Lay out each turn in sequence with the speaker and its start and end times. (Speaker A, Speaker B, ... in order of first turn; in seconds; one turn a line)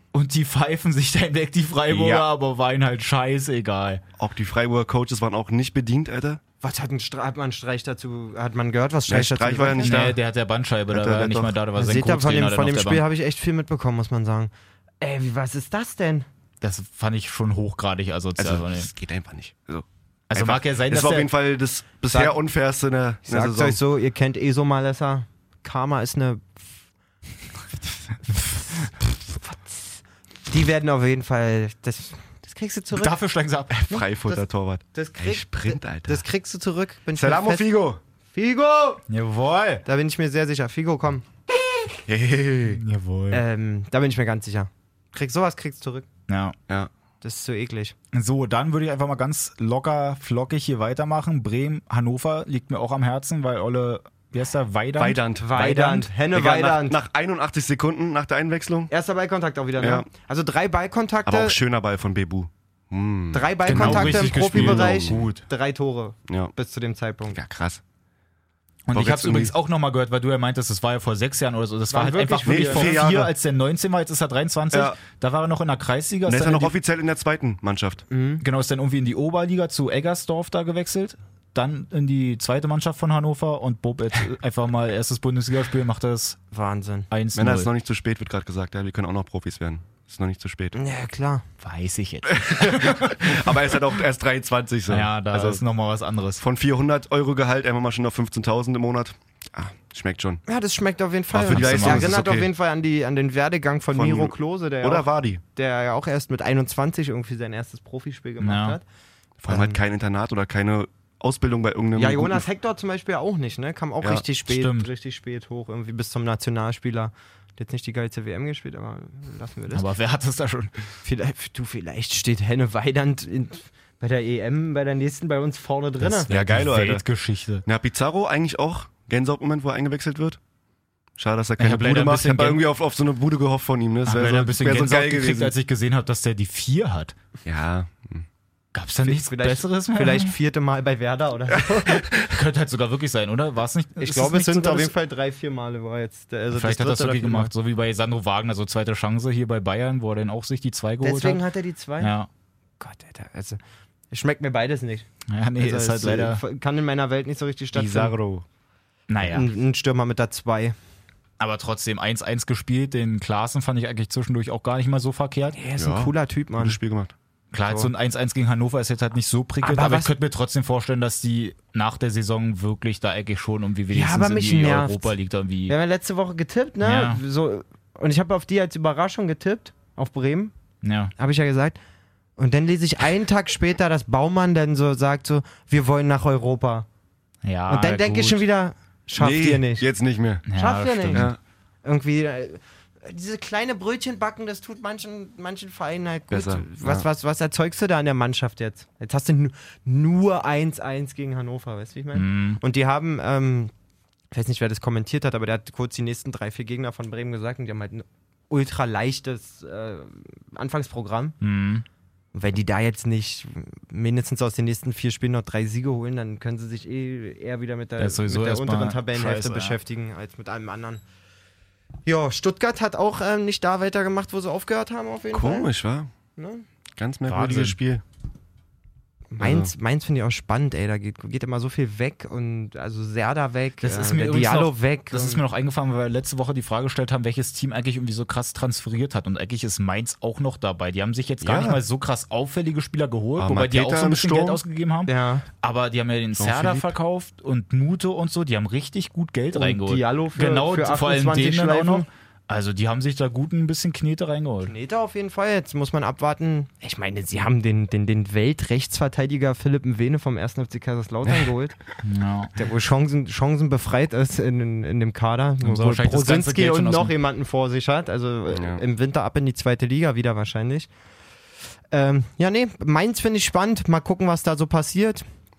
Speaker A: 0.1-4.0
Speaker B: 1.9-2.3
Speaker B: 4.2-6.4
Speaker C: 6.6-10.2
Speaker B: 9.1-10.1
Speaker A: 9.8-13.0
Speaker B: 10.9-11.6
Speaker C: 11.7-16.3
Speaker A: 16.6-18.9
Speaker B: 18.4-23.8
Speaker A: 20.3-21.3
Speaker C: 23.3-26.5
Speaker C: 29.3-33.1
Speaker A: 32.9-34.0
Speaker B: 33.9-36.2
Speaker C: 33.9-37.7
Speaker B: 37.1-38.0
Speaker C: 38.3-39.0
Speaker A: 39.1-39.8
Speaker C: 39.8-41.2
Speaker B: 42.1-42.8
Speaker A: 42.7-43.4
Speaker C: 43.3-46.1
Speaker A: 46.3-46.5
Speaker C: 47.2-47.9
Speaker A: 48.1-56.1
Speaker B: 55.0-55.8
Speaker C: 55.4-57.0
Speaker B: 56.3-58.9
Speaker C: 58.9-61.6
Speaker B: 59.8-60.1
Speaker B: 61.2-65.2
Speaker C: 63.3-67.4
Speaker A: 63.6-65.5
Speaker B: 66.3-66.5
Speaker B: 67.3-67.8
Speaker A: 68.9-76.7
Speaker B: 68.9-69.5
Speaker C: 71.9-73.0
Speaker B: 72.4-73.3
Speaker B: 74.7-75.0
Speaker B: 76.2-78.0
Speaker C: 78.1-78.4
Speaker A: 78.4-86.4
Speaker C: 86.5-87.1
Speaker A: 87.1-87.7
Speaker B: 87.3-90.8
Speaker C: 90.7-91.4
Speaker A: 91.6-93.5
Speaker B: 92.3-95.6
Speaker A: 94.9-96.4
Speaker B: 96.4-100.4
Speaker C: 100.5-108.8
Speaker B: 101.3-102.5
Speaker A: 101.4-102.2
Speaker B: 103.9-105.4
Speaker A: 108.4-108.8
Speaker B: 109.4-112.5
Speaker C: 109.5-109.8
Speaker C: 112.0-119.9
Speaker A: 114.5-114.9
Speaker A: 119.7-120.7
Speaker C: 121.0-126.3
Speaker A: 126.0-127.6
Speaker B: 126.3-127.0
Speaker B: 127.6-130.4
Speaker B: 131.2-135.6
Speaker A: 131.6-132.6
Speaker A: 134.1-137.2
Speaker B: 137.4-138.3
Speaker A: 138.7-140.4
Speaker C: 139.0-142.1
Speaker B: 141.5-142.0
Speaker A: 142.1-144.9
Speaker C: 144.0-147.5
Speaker A: 146.5-151.4
Speaker C: 151.0-152.1
Speaker A: 152.0-152.3
Speaker C: 152.8-155.1
Speaker A: 155.3-156.4
Speaker C: 155.6-158.2
Speaker B: 157.7-158.4
Speaker A: 159.1-159.5
Speaker C: 159.2-160.8
Speaker A: 161.4-165.6
Speaker C: 165.5-166.8
Speaker B: 165.8-167.1
Speaker A: 167.5-175.7
Speaker C: 169.6-170.1
Speaker C: 173.9-175.1
Speaker C: 175.7-180.5
Speaker A: 176.8-177.2
Speaker A: 180.8-181.1
Speaker C: 181.2-181.8
Speaker C: 182.4-186.9
Speaker A: 187.4-188.4
Speaker C: 187.7-189.9
Speaker B: 189.2-190.4
Speaker A: 190.4-191.3
Speaker C: 190.5-203.7
Speaker B: 191.1-191.4
Speaker B: 196.3-197.1
Speaker A: 202.1-202.6
Speaker C: 204.3-211.4
Speaker A: 211.4-211.8
Speaker C: 212.3-221.0
Speaker A: 218.0-219.8
Speaker C: 222.1-225.7
Speaker B: 225.3-226.1
Speaker C: 226.4-226.6
Speaker B: 226.9-228.0
Speaker A: 227.3-227.8
Speaker C: 229.3-235.4
Speaker B: 229.4-229.7
Speaker A: 233.8-254.7
Speaker B: 241.4-241.8
Speaker B: 243.4-244.6
Speaker C: 245.1-245.4
Speaker B: 246.4-246.9
Speaker C: 249.5-252.1
Speaker C: 254.7-261.8
Speaker B: 261.2-261.5
Speaker A: 262.0-262.5
Speaker C: 262.6-270.9
Speaker A: 265.6-267.1
Speaker B: 268.5-268.8
Speaker C: 271.9-275.2